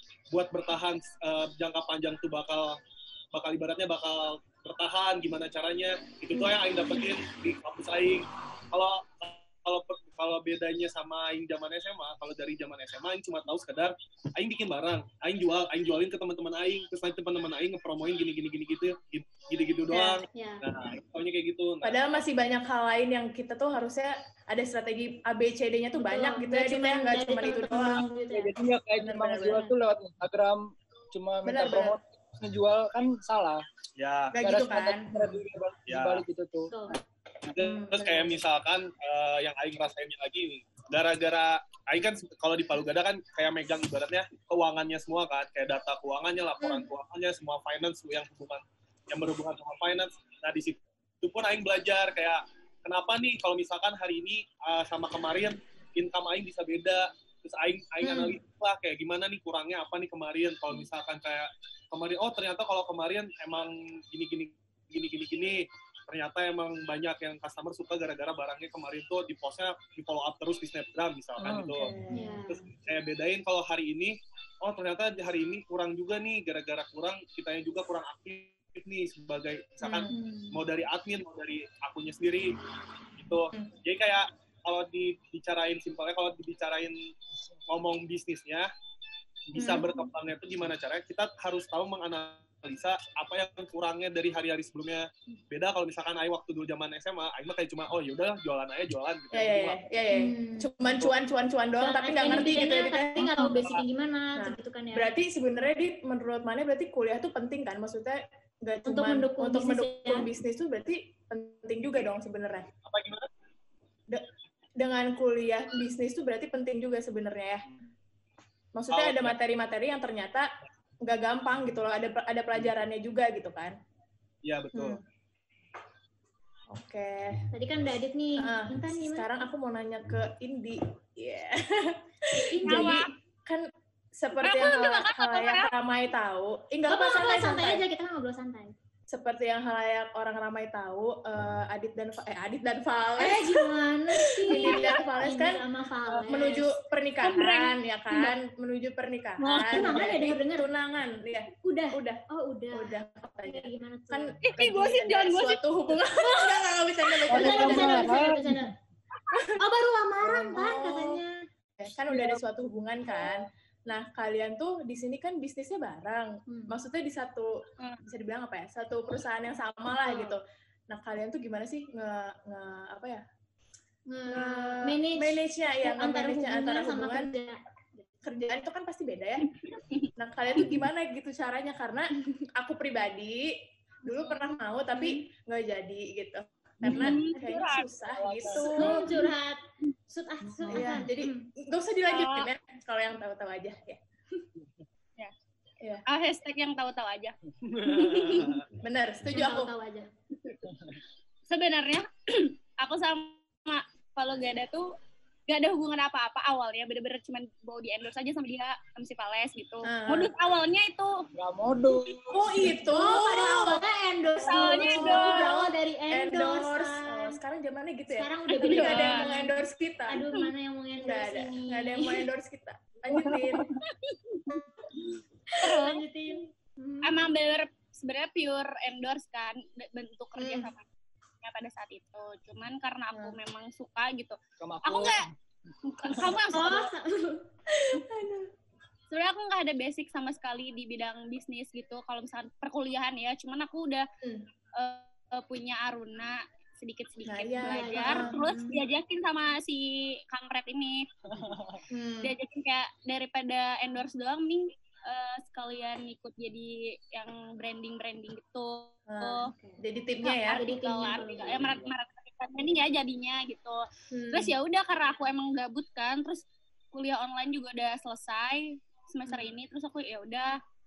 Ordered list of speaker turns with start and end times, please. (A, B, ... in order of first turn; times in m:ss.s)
0:00.3-0:02.8 A
0:03.3-0:22.1 A
0:19.9-0:20.2 B
0:20.3-0:20.6 C
0:21.8-0:28.0 B
0:26.0-0:28.5 C
0:28.3-0:33.6 D
0:29.0-0:29.7 B
0:31.4-0:32.0 B
0:34.0-0:34.4 A
0:34.3-0:35.2 B
0:34.4-0:37.0 D
0:35.9-0:36.2 A
0:36.7-0:37.0 C
0:37.5-1:11.9 A
0:37.6-0:38.4 B
0:58.0-0:58.4 B
1:11.4-1:11.7 D
1:11.7-1:12.4 B
1:12.1-1:12.6 C
1:12.5-1:22.6 A
1:19.8-1:20.1 B
1:20.1-1:20.6 C
1:23.2-1:27.0 A
1:27.7-1:28.7 A
1:29.5-1:39.8 A
1:29.6-1:29.9 B
1:39.3-1:43.7 B
1:40.1-1:40.7 C
1:41.8-1:45.2 C
1:43.5-1:43.8 A
1:44.4-1:52.7 B
1:48.8-1:50.3 C
1:52.8-1:53.3 A
1:54.8-1:57.6 B
1:58.7-2:00.5 B
1:58.9-1:59.4 A
2:01.0-2:03.8 B
2:04.4-2:05.0 A
2:04.7-2:05.0 B
2:06.7-2:07.4 B
2:07.5-2:09.3 C
2:08.4-2:17.8 B
2:12.4-2:13.1 C
2:12.6-2:13.1 E
2:14.4-2:15.7 E
2:16.9-2:18.7 C
2:19.1-2:23.7 B
2:23.2-2:26.7 C
2:24.4-2:32.2 B
2:24.5-2:25.0 E
2:27.2-2:27.7 E
2:29.4-2:29.9 E
2:29.7-2:30.7 C
2:31.6-2:34.3 C
2:32.7-2:38.1 B
2:34.4-2:36.7 E
2:37.3-2:38.7 D
2:37.4-2:38.7 C
2:39.6-2:41.4 C
2:40.2-2:41.2 B
2:41.8-2:53.2 B
2:46.5-2:46.8 C
2:47.8-2:48.0 E
2:50.0-2:50.4 C
2:54.1-2:58.0 C
2:54.3-2:57.3 B
2:58.2-2:59.5 B
2:59.8-3:00.1 E
3:00.2-3:09.2 B
3:04.9-3:05.2 C
3:06.8-3:07.9 E
3:06.9-3:07.2 C
3:08.1-3:09.0 D
3:08.5-3:08.9 E
3:08.7-3:11.5 C
3:10.5-3:10.9 D
3:10.7-3:14.0 B
3:12.1-3:12.5 E
3:14.6-3:14.8 D
3:16.1-3:17.3 E
3:17.6-3:18.6 A
3:17.9-3:18.5 E
3:18.0-3:19.7 B
3:19.3-3:20.1 C
3:20.6-3:21.0 D
3:21.5-3:24.9 E
3:25.5-3:31.2 E
3:29.8-3:30.3 B
3:31.4-3:32.4 D
3:32.3-3:33.8 B
3:32.6-3:37.4 C
3:34.4-3:35.6 E
3:34.4-3:40.3 B
3:38.1-3:42.2 C
3:38.6-3:39.3 E
3:41.0-3:43.7 B
3:43.1-3:43.8 D
3:43.8-3:44.6 E
3:45.5-3:47.3 C
3:45.6-3:46.0 E
3:47.0-3:50.8 E
3:50.4-3:50.7 B
3:51.4-3:55.3 E
3:54.6-3:55.3 D
3:55.8-3:56.9 E
3:56.0-3:56.4 D
3:56.2-3:57.5 C
3:57.9-3:58.4 B
3:59.1-4:04.1 E
4:04.2-4:04.5 B
4:04.8-4:11.1 E
4:07.2-4:08.6 B
4:07.6-4:08.8 C
4:11.2-4:11.8 D
4:11.9-4:12.3 B
4:12.2-4:19.5 E
4:19.1-4:20.6 B
4:19.5-4:19.8 C
4:20.2-4:30.6 E
4:20.5-4:21.7 C
4:24.1-4:24.5 B